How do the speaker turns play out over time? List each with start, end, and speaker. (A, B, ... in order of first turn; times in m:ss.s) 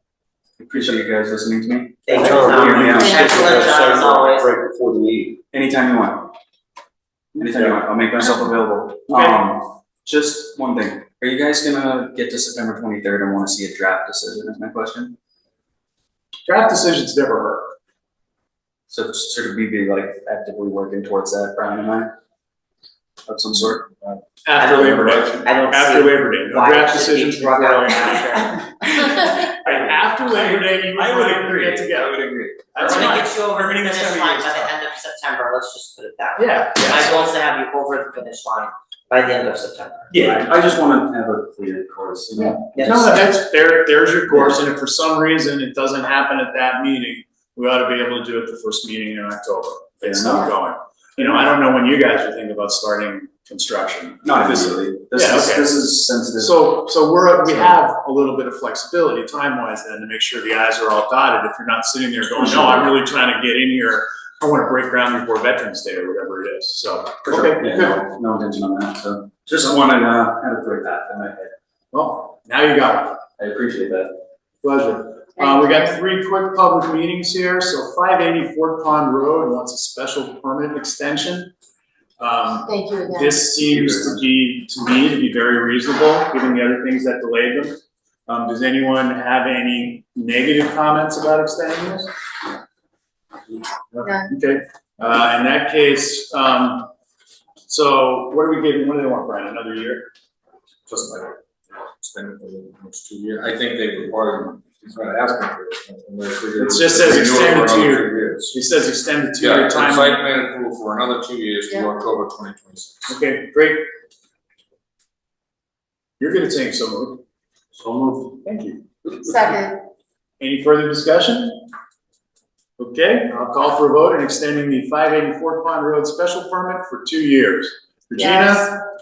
0:00.6-0:03.4 A
0:02.1-0:04.5 B
0:02.1-0:05.3 C
0:05.4-0:06.3 A
0:07.4-0:15.2 A
0:09.1-0:09.4 D
0:16.5-0:17.8 D
0:18.9-0:22.1 A
0:23.3-0:23.8 A
0:24.4-0:32.2 D
0:24.6-0:28.6 B
0:24.8-0:25.2 C
0:29.2-0:33.2 A
0:32.7-0:34.7 D
0:32.8-0:40.1 B
0:36.4-0:37.3 D
0:40.1-0:43.2 A
0:42.4-0:55.7 D
0:42.8-0:43.1 B
0:44.3-0:44.6 A
0:50.0-0:50.5 A
0:51.2-0:51.5 A
0:54.2-0:56.6 A
0:56.4-1:08.0 D
0:57.5-0:57.8 A
1:02.4-1:02.9 A
1:07.3-1:11.5 A
1:11.9-1:13.2 D
1:13.4-1:14.2 A
1:14.6-1:21.5 D
1:15.4-1:15.9 E
1:22.2-1:32.1 D
1:22.6-1:23.4 E
1:23.6-1:24.2 A
1:33.9-1:36.9 D
1:34.0-1:34.3 E
1:37.7-1:40.1 D
1:40.9-1:41.4 C
1:42.0-1:48.6 C
1:46.6-1:50.2 D
1:49.4-1:53.2 C
1:53.1-1:53.9 D
1:56.2-1:57.2 D
1:57.8-1:59.1 D
1:59.2-1:59.8 E
2:00.4-2:01.7 D
2:02.8-2:08.8 D
2:08.2-2:08.7 E